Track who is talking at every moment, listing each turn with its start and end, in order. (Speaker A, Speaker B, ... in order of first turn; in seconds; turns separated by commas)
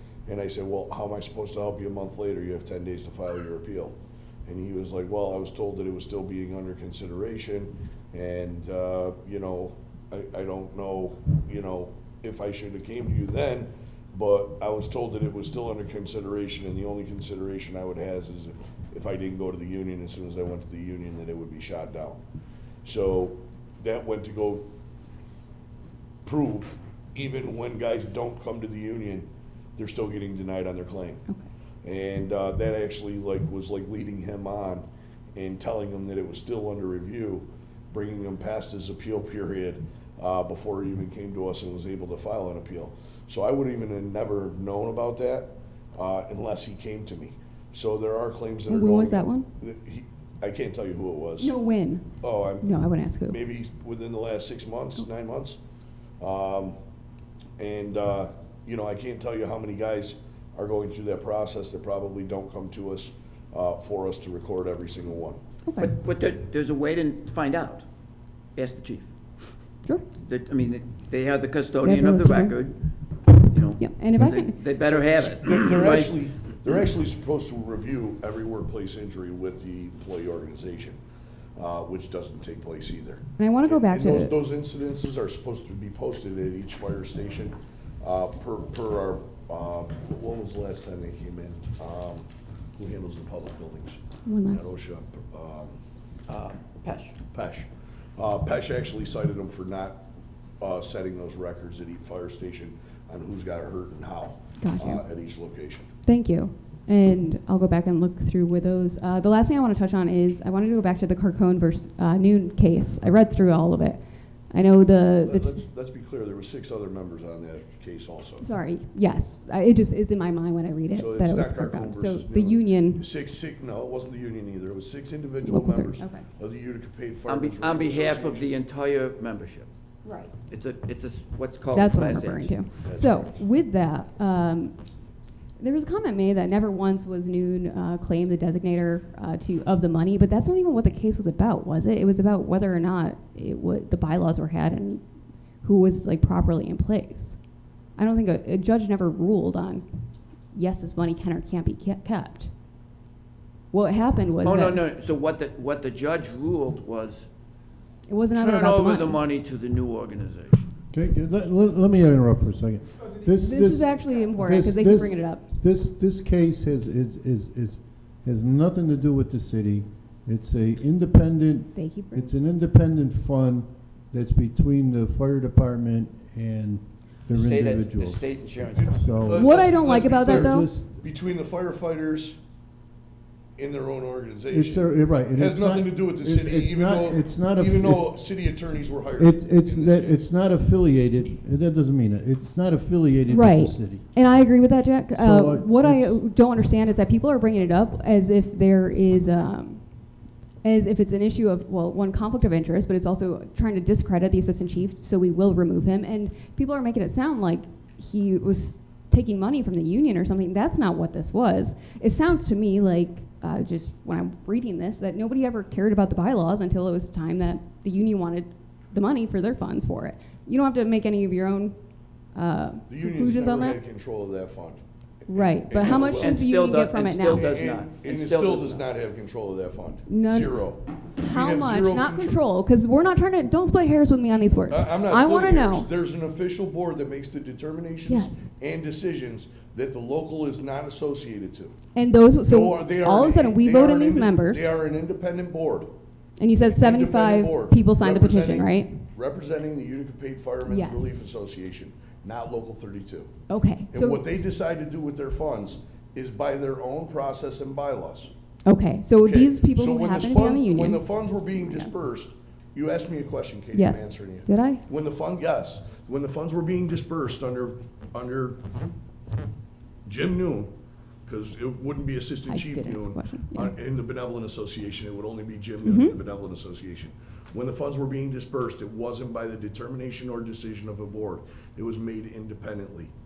Speaker A: 0.3-22.2, Speaker A: 22.8-24.7, Speaker A: 26.2-31.2, Speaker A: 31.8-51.6, Speaker B: 48.7-49.5, Speaker B: 51.4-53.4, Speaker A: 52.2-55.6, Speaker A: 56.2-56.8, Speaker A: 57.6-65.4, Speaker B: 65.7-65.9, Speaker C: 65.8-67.8, Speaker C: 68.6-69.1, Speaker C: 70.2-72.8, Speaker B: 71.8-72.6, Speaker C: 73.4-76.2, Speaker B: 73.8-74.6, Speaker A: 74.8-81.0, Speaker A: 81.6-95.8, Speaker B: 83.4-84.4, Speaker B: 94.3-94.7, Speaker C: 96.3-97.2, Speaker A: 97.3-100.0, Speaker A: 100.6-105.9, Speaker B: 104.6-105.0, Speaker B: 106.0-115.6, Speaker A: 115.2-118.5, Speaker B: 118.4-123.0, Speaker A: 120.9-128.5, Speaker B: 125.4-126.3, Speaker C: 127.3-129.7, Speaker B: 130.1-130.3, Speaker C: 130.4-132.6, Speaker B: 131.7-134.8, Speaker A: 132.8-133.3, Speaker B: 135.6-145.0, Speaker B: 145.6-147.4, Speaker B: 148.0-149.8, Speaker B: 150.5-152.5, Speaker B: 153.7-154.8, Speaker C: 154.4-157.3, Speaker B: 158.1-159.2, Speaker C: 158.4-160.7, Speaker D: 160.9-178.3, Speaker B: 163.4-165.5, Speaker B: 171.8-172.3, Speaker C: 177.3-179.5, Speaker A: 178.7-182.4, Speaker D: 178.9-181.0, Speaker B: 179.3-180.7, Speaker A: 183.6-190.2, Speaker D: 184.5-188.5, Speaker D: 189.2-194.1, Speaker B: 193.3-199.9, Speaker D: 195.1-196.2, Speaker B: 200.6-221.8, Speaker B: 222.3-223.8, Speaker A: 222.9-226.4, Speaker B: 225.3-227.5, Speaker C: 225.8-228.9, Speaker A: 227.2-232.4, Speaker B: 230.1-235.9, Speaker A: 234.7-241.7, Speaker B: 238.1-238.5, Speaker B: 241.9-244.7, Speaker A: 242.5-245.9, Speaker B: 246.4-249.0, Speaker A: 246.5-253.3, Speaker B: 250.7-251.2, Speaker B: 253.5-254.2, Speaker A: 253.9-258.3, Speaker B: 258.6-261.9, Speaker A: 259.2-268.6, Speaker B: 263.7-264.8, Speaker A: 270.1-270.7, Speaker A: 271.3-283.1, Speaker B: 272.5-273.7, Speaker B: 275.8-276.2